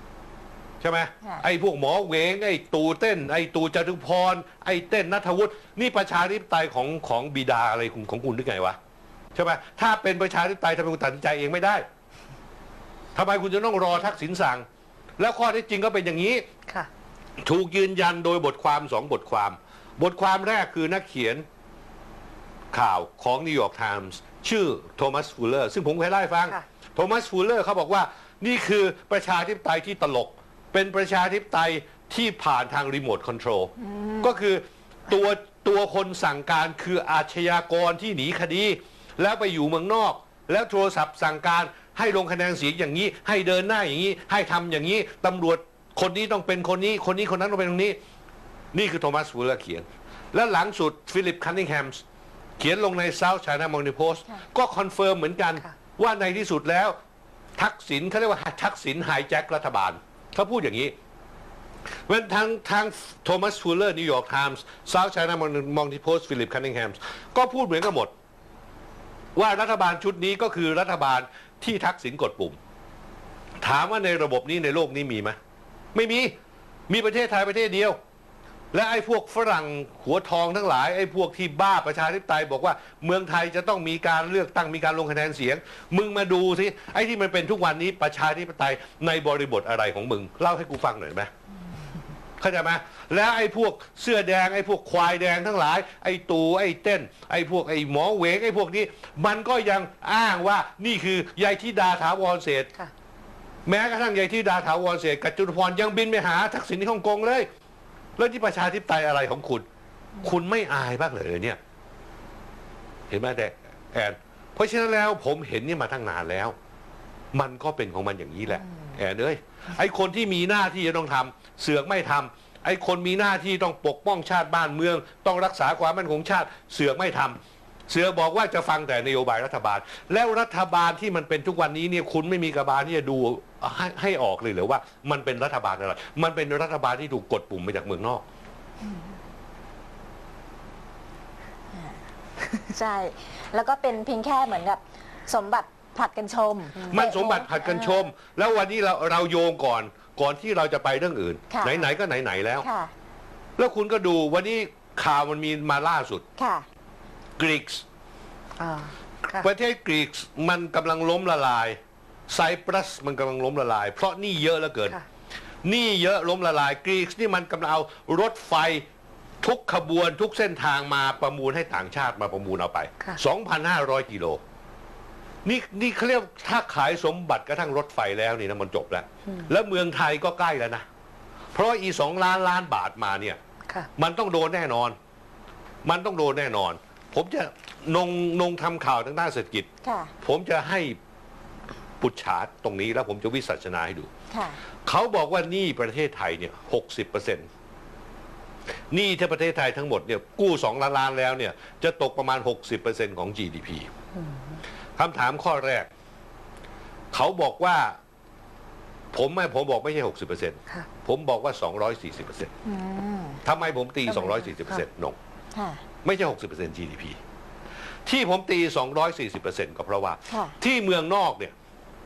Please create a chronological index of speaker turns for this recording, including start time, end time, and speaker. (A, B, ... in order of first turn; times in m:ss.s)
0:00.8-0:08.8 A
0:09.3-0:11.8 A
0:13.1-0:14.6 A
0:15.2-0:16.4 A
0:17.4-0:21.4 A
0:22.7-0:48.0 A
0:33.8-0:34.3 B
0:48.7-0:52.0 A
0:52.6-0:57.0 A
0:57.6-1:00.9 A
1:02.1-1:08.1 A
1:09.3-1:12.6 A
1:13.6-1:15.4 A
1:15.9-1:16.3 A
1:16.9-1:18.0 A
1:18.7-1:31.3 A
1:32.4-1:42.7 A
1:43.6-1:47.5 A
1:48.2-1:49.6 A
1:50.2-1:51.6 A
1:53.1-1:56.5 A
1:57.3-2:18.2 A
2:18.8-2:19.2 B
2:22.7-2:28.1 B
2:26.7-2:27.0 C
2:26.9-2:32.6 A
2:31.5-2:31.9 B
2:32.6-2:32.9 B
2:33.6-2:36.2 A
2:36.4-2:36.6 B
2:37.4-2:37.8 A
2:38.6-2:39.5 C
2:39.3-2:41.8 A
2:42.3-2:45.0 A
2:45.6-2:48.8 A
2:49.4-2:54.4 A
2:55.4-3:00.8 A
3:01.5-3:03.4 A
3:04.0-3:05.0 A
3:05.8-3:09.7 A
3:09.8-3:10.1 B
3:10.2-3:11.0 A
3:12.0-3:14.1 A
3:14.3-3:14.6 B
3:14.8-3:17.5 A
3:18.9-3:23.9 A
3:24.1-3:24.6 C
3:25.0-3:25.9 A
3:27.1-3:28.0 A
3:29.1-3:32.5 A
3:32.6-3:33.4 B
3:33.4-3:35.2 A
3:34.1-3:34.8 C
3:35.5-3:35.8 B
3:36.0-3:37.2 A
3:38.0-3:41.5 A
3:40.3-3:40.6 B